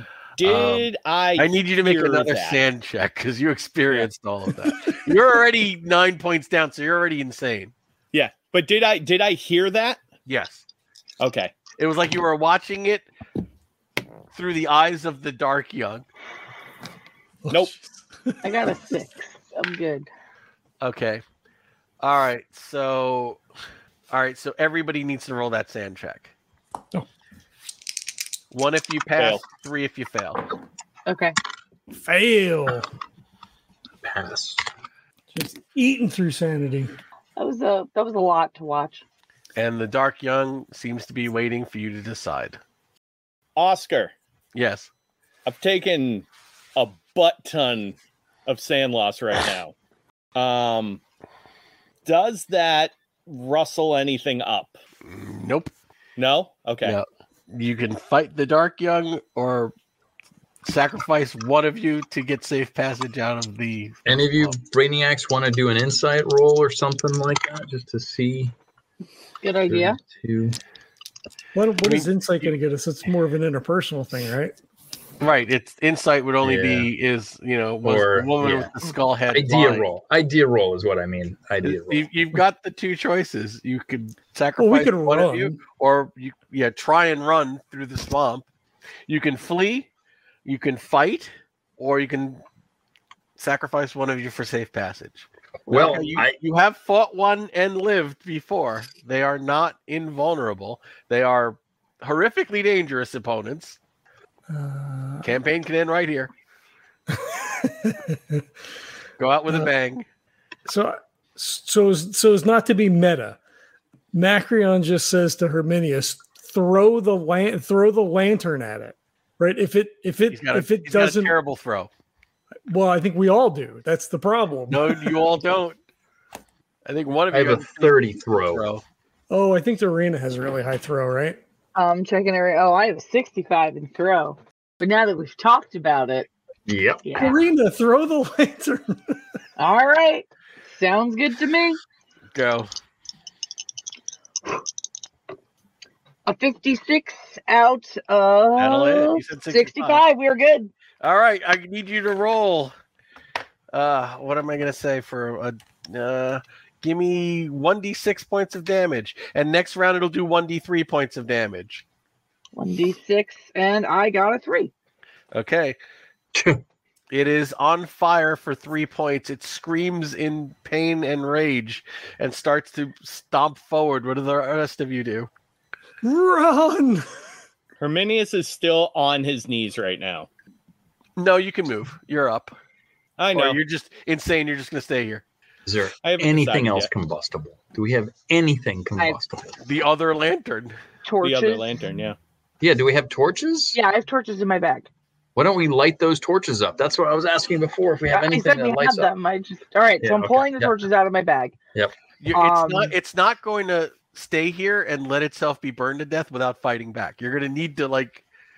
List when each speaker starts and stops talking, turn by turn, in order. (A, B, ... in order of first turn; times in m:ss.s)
0:00.4-0:02.6 A
0:00.4-0:07.7 B
0:04.7-0:05.0 A
0:08.1-0:10.0 A
0:10.3-0:10.6 B
0:11.2-0:11.5 A
0:11.8-0:13.1 B
0:14.3-0:16.0 B
0:17.4-0:18.4 C
0:18.4-0:20.1 D
0:20.8-0:21.2 B
0:22.0-0:23.4 B
0:24.1-0:26.3 B
0:28.5-0:30.4 B
0:29.2-0:29.4 A
0:31.1-0:31.4 D
0:32.0-0:32.9 C
0:34.0-0:34.6 E
0:35.3-0:37.0 C
0:37.4-0:39.0 D
0:39.6-0:42.6 B
0:43.6-0:44.1 A
0:44.5-0:44.9 B
0:45.5-0:49.7 A
0:50.4-0:51.0 A
0:52.0-0:54.8 A
0:55.1-0:55.7 B
0:56.2-0:57.0 A
0:56.8-0:59.7 B
1:00.6-1:04.5 B
1:04.0-1:08.6 E
1:09.4-1:10.0 D
1:09.7-1:10.6 E
1:11.6-1:14.6 C
1:11.8-1:12.5 B
1:15.2-1:19.9 B
1:16.4-1:16.9 E
1:17.8-1:18.7 E
1:19.3-1:22.1 E
1:21.6-1:28.5 B
1:24.6-1:25.6 C
1:29.1-1:29.9 B
1:30.4-1:32.4 B
1:33.4-1:43.8 B
1:35.7-1:36.4 E
1:44.5-1:45.3 C
1:45.2-1:46.3 B
1:47.1-1:48.4 C
1:49.2-1:50.0 B
1:50.7-1:53.4 C
1:54.1-2:01.4 C
2:00.3-2:01.9 B
2:02.7-2:05.2 C
2:04.7-2:05.8 B
2:06.9-2:08.8 B
2:07.3-2:08.6 E
2:09.3-2:11.4 C
2:11.8-2:16.3 D
2:16.7-2:17.1 E
2:17.0-2:17.4 D
2:17.2-2:19.2 C
2:19.6-2:21.8 D
2:22.3-2:22.7 B
2:26.3-2:30.7 D
2:28.6-2:30.0 B
2:31.0-2:32.7 B
2:33.7-2:41.8 B
2:42.6-2:44.7 D
2:45.3-2:45.8 B
2:46.3-2:46.6 E
2:47.1-2:55.3 B
2:56.0-2:57.1 C
2:57.8-3:00.3 A
3:01.2-3:02.6 B
3:03.2-3:03.6 A
3:03.3-3:05.2 B
3:05.7-3:09.6 E
3:06.0-3:06.9 A
3:09.6-3:10.8 B
3:11.0-3:11.7 D
3:11.2-3:12.2 A
3:12.6-3:13.8 E
3:13.7-3:14.9 D
3:15.4-3:19.1 E
3:18.1-3:21.6 D
3:20.0-3:20.7 E
3:22.2-3:28.2 B
3:22.3-3:22.9 D